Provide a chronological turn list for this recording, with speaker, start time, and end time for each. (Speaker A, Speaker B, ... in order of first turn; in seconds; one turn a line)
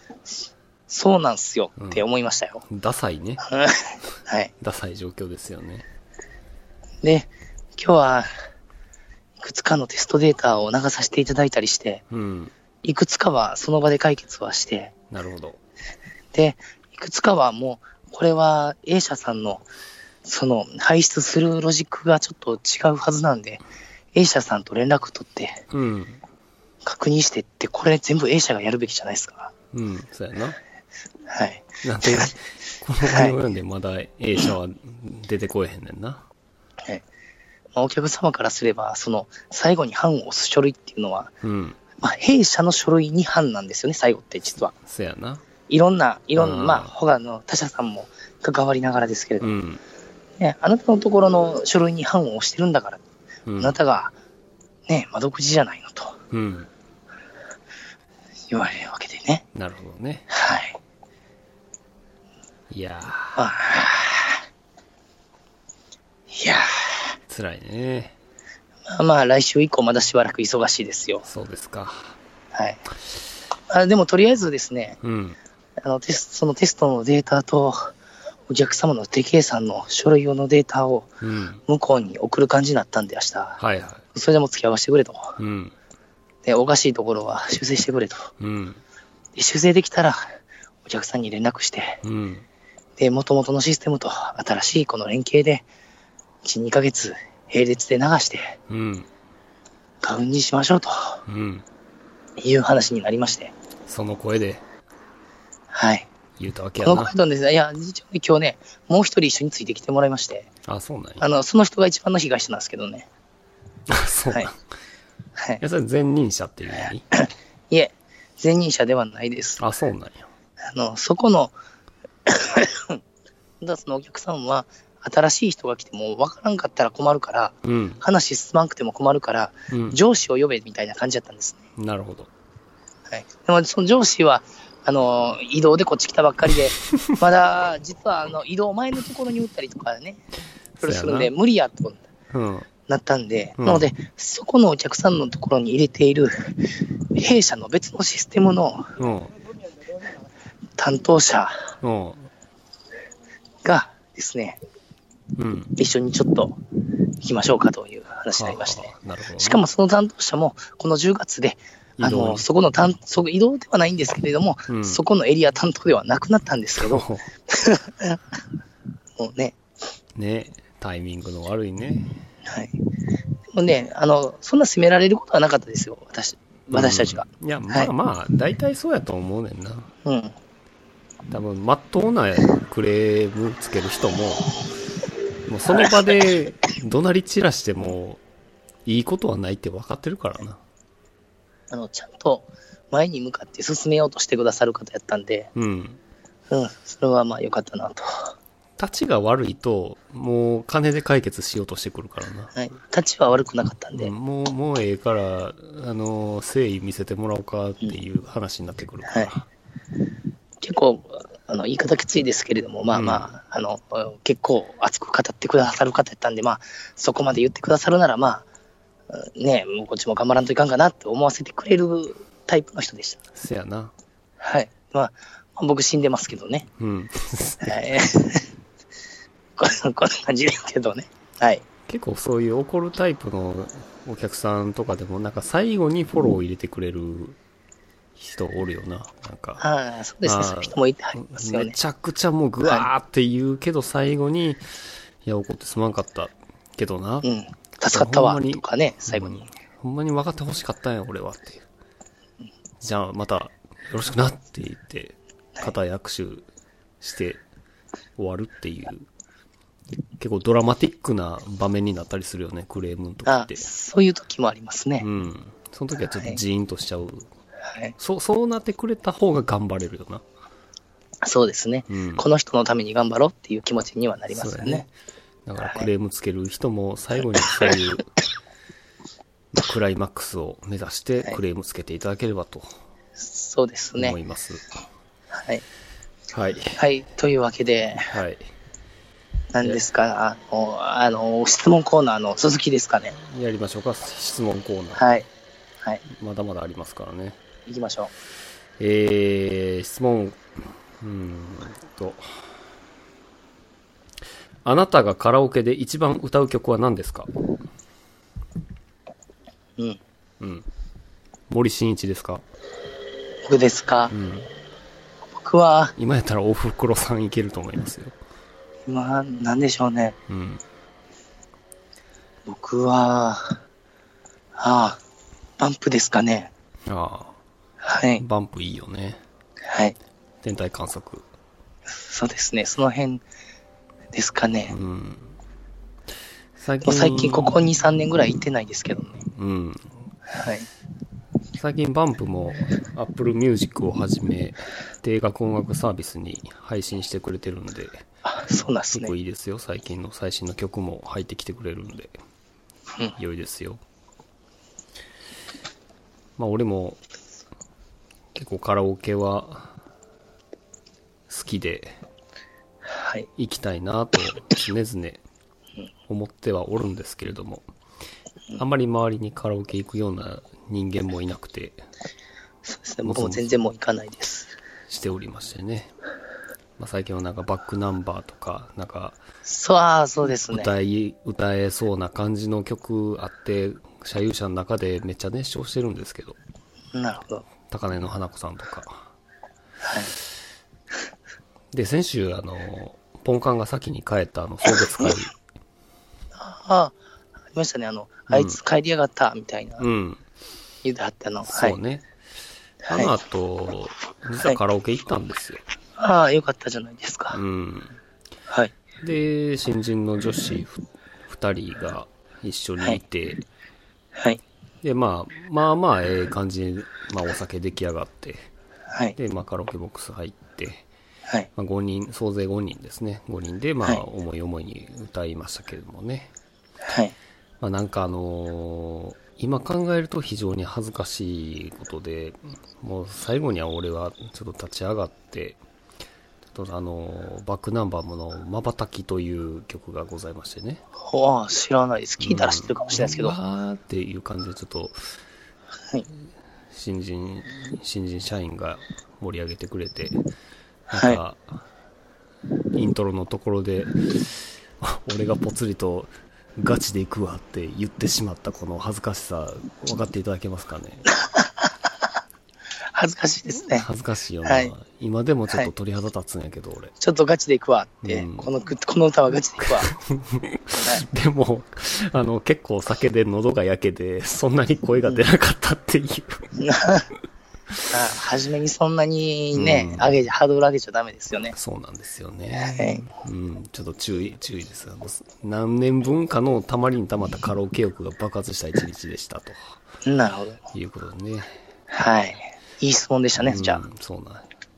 Speaker A: 0.9-2.6
Speaker B: 1.8-2.0
Speaker B: 2.7-3.5
Speaker A: 3.5-4.5
Speaker B: 4.6-5.9
Speaker A: 7.0-8.3
Speaker A: 9.4-12.0
Speaker B: 12.1-12.5
Speaker A: 12.8-14.9
Speaker B: 15.1-15.6
Speaker A: 16.3-19.6
Speaker A: 20.2-23.6
Speaker A: 24.1-25.6
Speaker B: 25.7-26.2
Speaker A: 26.8-29.5
Speaker B: 29.7-30.6
Speaker A: 31.3-32.3
Speaker B: 31.8-36.3
Speaker A: 33.0-33.4
Speaker A: 37.8-41.3
Speaker B: 41.4-41.8
Speaker A: 42.0-44.8
Speaker B: 44.8-45.4
Speaker A: 45.7-49.5
Speaker B: 46.4-46.9
Speaker B: 49.4-49.8
Speaker A: 50.4-53.0
Speaker B: 53.5-53.8
Speaker A: 53.6-54.1
Speaker A: 54.9-56.2
Speaker B: 56.3-56.7
Speaker A: 58.5-59.4
Speaker B: 59.5-60.3
Speaker A: 60.3-60.8
Speaker B: 62.7-63.4
Speaker A: 63.4-64.4
Speaker A: 66.3-67.2
Speaker B: 67.3-68.2
Speaker A: 68.9-71.2
Speaker B: 71.2-72.2
Speaker A: 72.5-72.8
Speaker A: 73.7-75.0
Speaker B: 75.0-75.4
Speaker A: 75.8-77.9
Speaker A: 78.5-81.1
Speaker B: 81.2-81.6
Speaker A: 81.7-83.6
Speaker B: 83.6-84.0
Speaker A: 84.1-85.4
Speaker B: 85.4-85.7
Speaker A: 86.5-88.3
Speaker B: 88.4-88.8
Speaker A: 89.4-90.2
Speaker A: 90.8-92.0
Speaker B: 92.0-92.5
Speaker A: 93.0-95.7
Speaker A: 96.4-98.6
Speaker B: 98.7-99.1
Speaker A: 100.0-101.2
Speaker B: 101.3-101.7
Speaker A: 102.4-103.5
Speaker B: 103.9-104.6
Speaker A: 105.7-106.1
Speaker B: 106.4-107.1
Speaker A: 106.8-110.5
Speaker B: 110.7-111.2
Speaker A: 111.2-113.1
Speaker B: 113.9-114.6
Speaker B: 115.6-117.0
Speaker A: 117.1-119.6
Speaker B: 119.6-120.3
Speaker A: 120.7-121.5
Speaker A: 122.3-123.0
Speaker A: 123.6-131.6
Speaker B: 127.6-128.0
Speaker B: 129.7-130.0
Speaker B: 131.8-132.3
Speaker A: 133.1-140.2
Speaker B: 140.8-141.3
Speaker A: 140.8-142.0
Speaker B: 142.3-142.7
Speaker A: 142.9-148.9
Speaker B: 143.6-143.9
Speaker B: 149.0-149.3
Speaker A: 150.8-151.7
Speaker B: 151.8-152.3
Speaker A: 153.6-154.6
Speaker B: 155.4-155.7
Speaker A: 155.8-156.6
Speaker A: 157.2-168.2
Speaker B: 158.3-159.6
Speaker B: 162.0-162.4
Speaker B: 164.7-165.0
Speaker B: 166.8-167.3
Speaker A: 169.2-169.6
Speaker B: 170.2-172.2
Speaker A: 172.5-172.8
Speaker A: 173.5-177.9
Speaker B: 176.7-179.9
Speaker A: 180.1-180.3
Speaker B: 181.3-184.5
Speaker B: 185.5-188.2
Speaker B: 188.8-190.6
Speaker A: 191.7-195.5
Speaker B: 195.6-196.0
Speaker A: 196.5-198.3
Speaker B: 198.8-202.5
Speaker A: 202.6-204.1
Speaker B: 204.0-209.5
Speaker A: 210.6-218.4
Speaker B: 212.9-213.3
Speaker A: 219.1-223.2
Speaker B: 223.3-223.9
Speaker A: 224.4-226.7
Speaker B: 226.8-227.8
Speaker A: 227.6-228.5
Speaker A: 229.6-231.6
Speaker B: 231.9-237.4
Speaker B: 238.2-239.6
Speaker A: 239.6-241.7
Speaker B: 240.2-244.6
Speaker B: 245.2-247.3
Speaker A: 247.2-249.5
Speaker B: 247.9-251.7
Speaker B: 252.8-256.5
Speaker B: 257.0-257.4
Speaker B: 258.2-259.1
Speaker B: 260.2-263.7
Speaker A: 263.2-265.1
Speaker B: 265.0-267.3
Speaker B: 268.0-270.2
Speaker A: 271.2-274.8
Speaker B: 271.9-272.3
Speaker B: 274.3-274.9
Speaker B: 275.4-278.1
Speaker A: 275.6-275.9
Speaker B: 279.5-282.8
Speaker A: 283.2-284.2
Speaker B: 284.0-284.6
Speaker A: 285.3-285.6
Speaker B: 286.3-286.8
Speaker A: 286.8-288.1
Speaker B: 288.1-288.4
Speaker A: 289.5-293.2
Speaker B: 293.2-295.1
Speaker A: 295.0-295.3
Speaker B: 296.1-297.4
Speaker A: 297.7-298.1
Speaker B: 298.8-302.4
Speaker B: 304.6-307.3
Speaker B: 310.4-310.7
Speaker B: 311.5-312.4
Speaker A: 313.4-314.1
Speaker B: 314.1-314.5
Speaker A: 315.4-315.9
Speaker B: 316.0-318.2
Speaker A: 318.9-320.2
Speaker B: 320.3-320.6
Speaker A: 322.5-323.6
Speaker A: 324.6-325.0
Speaker A: 325.6-326.5
Speaker B: 326.9-327.4
Speaker A: 327.8-328.2
Speaker B: 328.2-329.2
Speaker A: 329.7-330.0
Speaker B: 330.4-331.3
Speaker A: 332.0-333.2
Speaker A: 334.1-334.8
Speaker B: 334.7-335.3
Speaker B: 336.6-337.6
Speaker A: 336.8-339.3
Speaker B: 339.4-339.9
Speaker A: 340.3-340.7
Speaker B: 341.5-348.0
Speaker A: 348.3-349.1
Speaker B: 348.9-352.2
Speaker B: 353.2-353.8
Speaker B: 356.4-357.0
Speaker B: 358.4-359.7
Speaker B: 361.3-362.0
Speaker A: 362.9-363.3
Speaker B: 363.4-365.2
Speaker B: 366.1-367.7
Speaker B: 368.6-371.8
Speaker A: 372.7-374.5
Speaker B: 373.0-373.5
Speaker B: 374.9-375.9
Speaker B: 376.8-379.2
Speaker A: 379.5-380.7
Speaker B: 380.3-386.4
Speaker A: 386.9-387.4
Speaker B: 387.7-389.0
Speaker A: 389.8-390.1
Speaker B: 391.7-395.3
Speaker A: 396.4-396.9
Speaker A: 397.5-399.9
Speaker B: 398.3-398.6
Speaker B: 399.8-400.2
Speaker A: 400.8-401.8
Speaker B: 401.4-402.1
Speaker A: 402.8-403.1
Speaker B: 402.9-405.6
Speaker A: 406.0-407.4
Speaker B: 407.3-408.0
Speaker B: 409.0-413.4
Speaker A: 414.2-414.4
Speaker B: 414.8-418.5
Speaker B: 419.2-420.9
Speaker B: 421.6-426.3
Speaker A: 426.9-427.1
Speaker B: 427.6-435.6
Speaker B: 436.5-440.8
Speaker A: 441.0-443.4
Speaker B: 442.2-445.0
Speaker B: 446.7-450.2
Speaker A: 450.9-451.2
Speaker B: 450.9-451.6
Speaker B: 452.7-461.1
Speaker A: 462.9-463.9
Speaker B: 463.7-466.9
Speaker A: 464.4-464.7
Speaker A: 467.0-469.9
Speaker B: 468.0-468.5
Speaker B: 469.6-476.5
Speaker A: 470.8-471.1
Speaker A: 476.6-477.1
Speaker A: 477.9-481.6
Speaker B: 479.6-480.2
Speaker B: 481.5-489.8
Speaker A: 482.5-483.1
Speaker A: 490.1-490.6
Speaker B: 490.7-491.6
Speaker A: 491.9-493.8
Speaker B: 493.4-494.5